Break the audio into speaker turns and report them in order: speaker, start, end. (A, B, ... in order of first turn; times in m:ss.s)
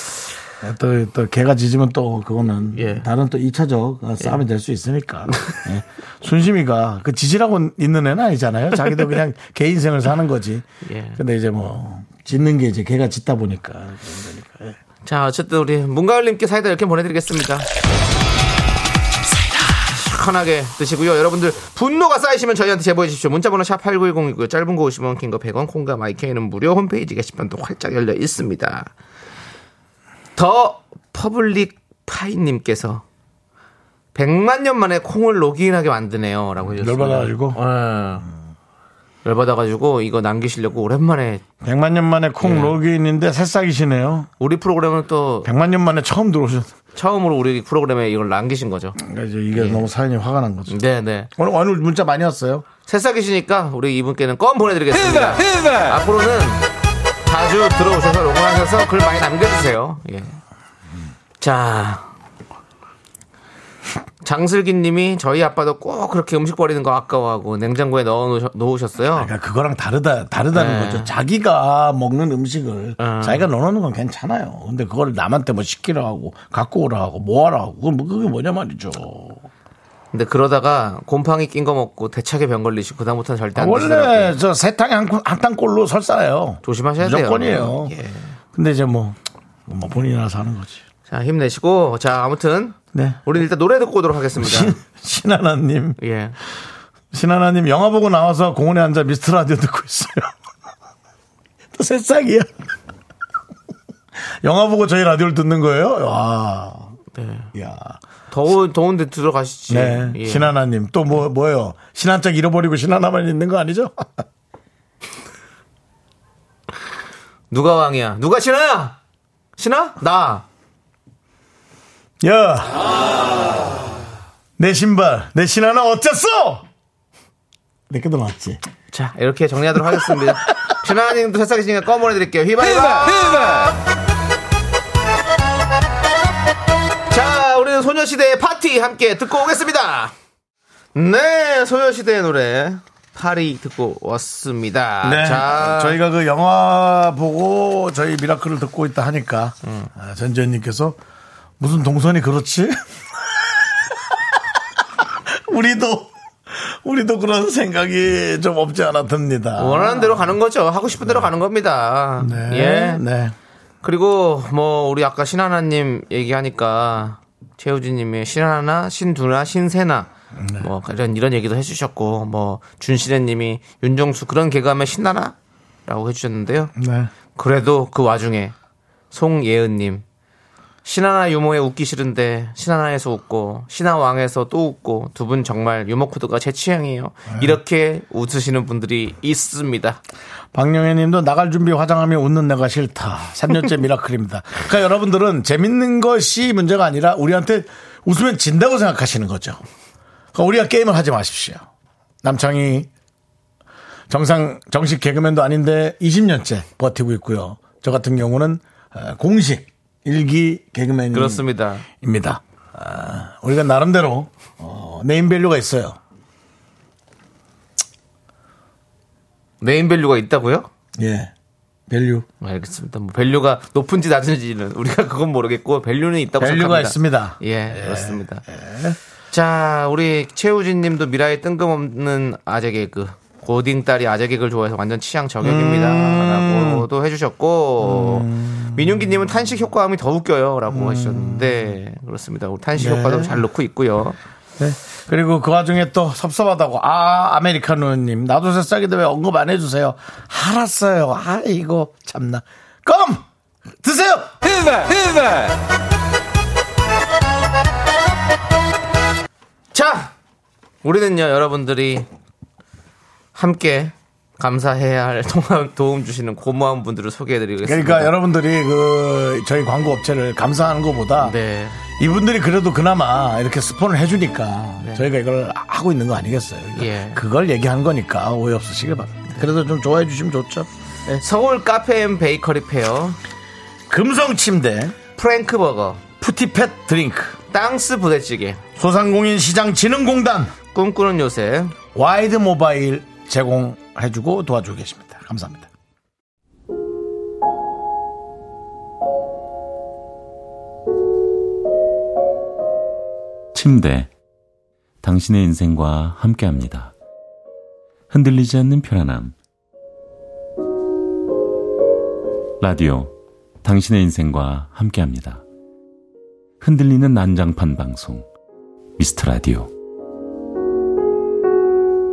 0:00.6-0:10.6 A
0:02.7-0:03.1 B
0:10.8-0:11.2 B
0:11.2-0:14.8 A
0:15.0-0:17.7 B
0:19.8-0:28.9 B
0:30.4-0:33.0 B
0:34.1-0:38.2 B
0:36.7-0:37.6 A
0:39.2-0:41.4 B
0:41.6-0:44.3 A
0:42.4-0:42.8 B
0:44.4-0:45.5 B
0:45.4-0:46.7 A
0:46.9-0:49.0 B
0:49.0-0:50.8 A
0:49.5-0:49.9 B
0:50.7-0:51.3 B
0:51.4-0:52.6 A
0:52.9-0:56.6 B
0:57.2-1:00.4 B
1:01.4-1:02.1 B
1:04.2-1:09.3 B
1:09.1-1:19.4 A
1:10.5-1:11.1 B
1:13.0-1:13.5 B
1:20.1-1:24.3 B
1:23.5-1:27.9 A
1:26.6-1:28.4 B
1:28.5-1:30.8 A
1:31.1-1:34.8 B
1:32.9-1:33.2 A
1:34.4-1:36.0 A
1:36.0-1:36.4 B
1:37.1-1:40.3 A
1:41.7-1:42.5 A
1:44.2-1:47.0 A
1:47.1-1:47.5 B
1:47.5-1:48.0 A
1:48.3-1:50.5 B
1:49.7-1:54.2 A
1:57.5-1:59.0 B
1:59.6-2:00.4 B
2:02.2-2:02.9 A
2:04.6-2:06.6 A
2:07.9-2:08.6 A
2:08.9-2:13.7 B
2:09.9-2:10.2 A
2:17.1-2:20.1 B
2:20.9-2:26.0 B
2:25.0-2:31.0 A
2:29.6-2:29.9 B
2:31.6-2:34.4 A
2:35.0-2:40.4 A
2:39.6-2:43.0 B
2:41.0-2:41.3 A
2:42.2-2:43.3 A
2:43.8-2:55.3 B
2:50.4-2:50.7 A
2:55.8-2:56.7 B
2:56.8-2:57.1 A
2:57.4-2:58.5 B
2:59.1-3:00.0 B
3:00.8-3:10.0 B
3:10.5-3:19.6 A
3:20.3-3:21.6 A
3:22.2-3:22.9 A
3:24.1-3:31.4 A
3:31.1-3:31.8 B
3:32.0-3:36.0 A
3:39.6-3:40.7 B
3:41.0-3:41.3 A
3:41.9-3:42.2 A
3:42.4-3:48.4 B
3:46.4-3:49.0 A
3:49.3-4:04.2 B
3:55.4-3:56.9 A
3:57.8-3:59.1 A
4:00.7-4:01.8 A
4:02.8-4:03.4 A
4:04.6-4:14.4 A
4:19.7-4:20.1 B
4:20.8-4:22.1 B
4:23.3-4:28.1 B
4:27.6-4:31.4 A
4:31.2-4:31.8 B
4:32.0-4:41.2 A
4:34.8-4:35.0 B
4:36.7-4:37.2 B
4:41.2-4:43.2 B
4:43.9-4:45.0 A
4:45.2-4:46.0 B
4:46.2-4:47.4 A
4:47.5-4:48.6 B
4:48.8-4:50.5 A
4:50.7-4:51.8 B
4:51.9-4:55.7 A
5:03.5-5:04.1 C
5:05.0-5:06.9 C
5:08.1-5:09.3 C
5:12.6-5:13.1 C
5:13.6-5:15.4 C
5:16.6-5:18.2 C
5:19.0-5:19.7 C